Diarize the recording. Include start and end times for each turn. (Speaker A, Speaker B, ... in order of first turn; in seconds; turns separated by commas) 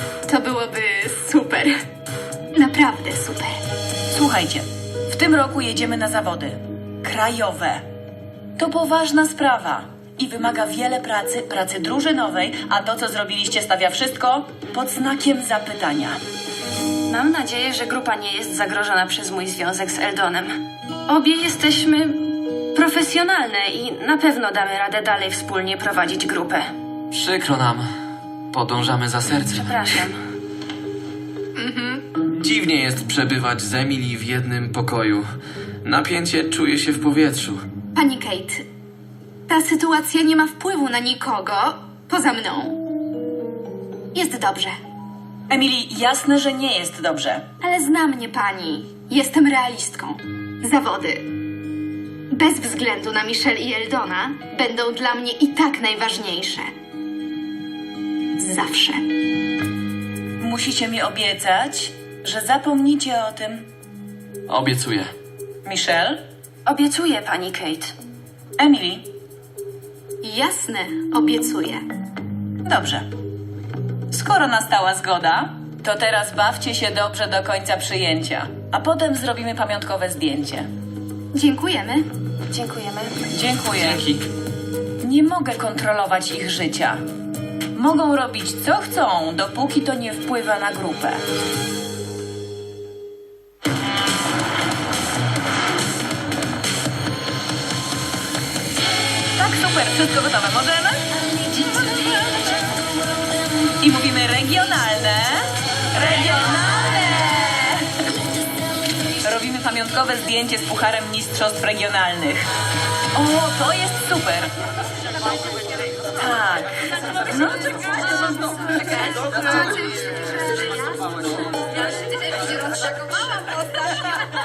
Speaker A: 0.3-1.7, Speaker A: 2.5-3.6, Speaker B: 4.1-7.8, Speaker B: 8.6-16.2, Speaker C: 17.1-20.6, Speaker C: 21.1-22.2, Speaker C: 22.8-26.7, Speaker D: 28.6-29.6, Speaker C: 29.7-30.1, Speaker A: 31.6-32.0, Speaker D: 32.6-34.9, Speaker D: 36.0-37.4, Speaker A: 37.9-38.6, Speaker A: 39.5-42.8, Speaker A: 44.1-44.8, Speaker B: 45.5-47.4, Speaker A: 47.6-51.3, Speaker A: 52.3-56.7, Speaker A: 58.4-59.0, Speaker B: 60.4-63.6, Speaker B: 65.6-66.2, Speaker C: 66.7-67.9, Speaker B: 68.6-69.0, Speaker A: 70.2-71.8, Speaker B: 72.6-73.0, Speaker B: 74.1-80.7, Speaker A: 81.3-82.0, Speaker C: 82.6-83.1, Speaker B: 83.3-84.0, Speaker B: 85.0-87.0, Speaker B: 87.7-91.2, Speaker B: 99.4-102.4, Speaker B: 103.8-107.9, Speaker B: 109.2-112.5, Speaker B: 113.1-114.5, Speaker B: 116.2-117.6